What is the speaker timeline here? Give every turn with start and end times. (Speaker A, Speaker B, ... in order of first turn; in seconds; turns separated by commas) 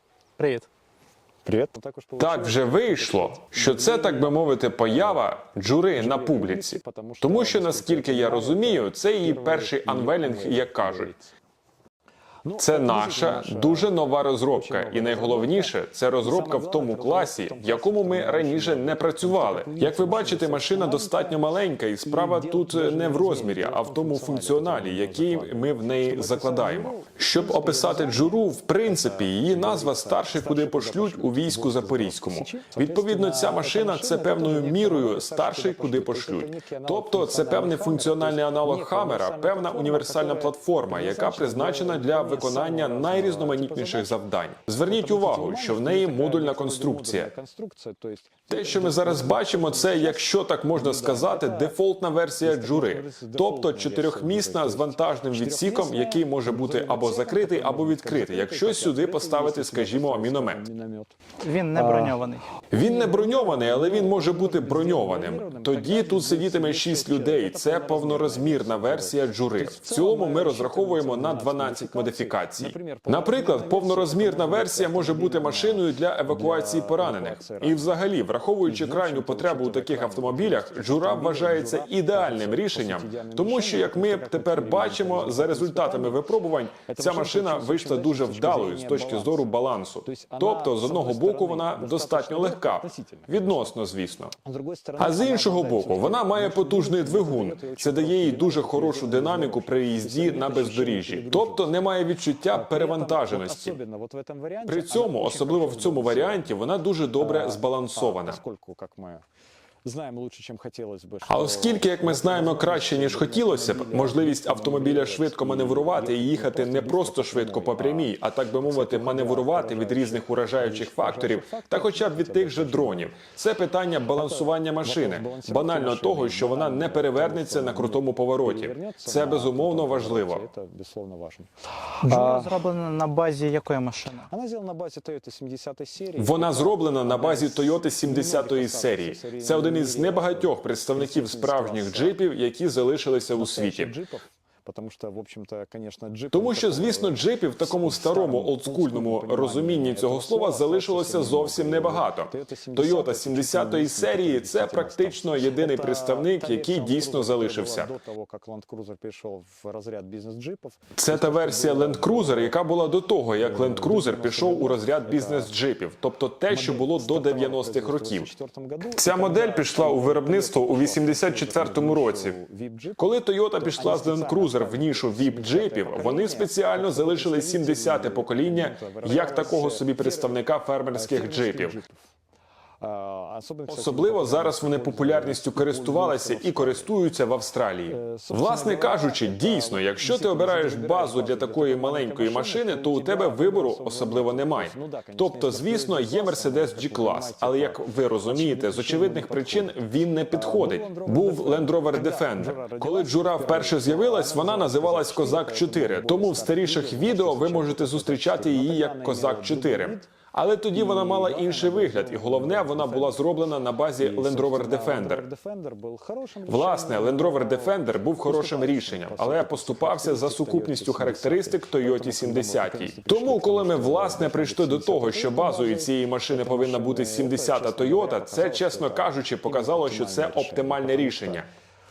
Speaker A: 0.4-0.7, Speaker B: 1.4-4.3, Speaker C: 2.2-11.1, Speaker B: 4.9-5.2, Speaker B: 6.0-11.2, Speaker B: 12.4-13.9, Speaker C: 12.6-47.3, Speaker B: 14.5-21.4, Speaker B: 22.0-44.2, Speaker B: 44.9-51.8, Speaker C: 48.5-60.6, Speaker B: 52.4-61.1, Speaker A: 61.4-62.5, Speaker C: 61.7-62.1, Speaker C: 62.7-94.3, Speaker B: 62.8-77.9, Speaker B: 78.6-86.2, Speaker B: 86.9-89.5, Speaker B: 90.0-93.8, Speaker B: 94.5-101.8, Speaker C: 95.0-103.8, Speaker B: 102.5-106.5, Speaker C: 104.7-108.4, Speaker B: 107.2-109.2, Speaker B: 109.8-118.1, Speaker C: 111.3-130.4, Speaker B: 118.6-123.1, Speaker B: 124.1-131.5, Speaker A: 132.0-134.3, Speaker B: 132.1-132.4, Speaker B: 134.3-142.2, Speaker C: 136.2-144.0, Speaker B: 143.3-162.6, Speaker C: 146.3-157.9, Speaker C: 160.9-168.3, Speaker B: 163.4-165.5, Speaker B: 166.5-173.0, Speaker C: 168.9-172.4, Speaker C: 173.0-181.8, Speaker B: 173.6-180.4, Speaker B: 180.9-181.9, Speaker B: 182.8-186.9, Speaker C: 183.7-215.2, Speaker B: 187.9-199.8, Speaker B: 200.3-210.1, Speaker B: 210.7-213.3, Speaker B: 214.0-231.4, Speaker C: 216.5-231.5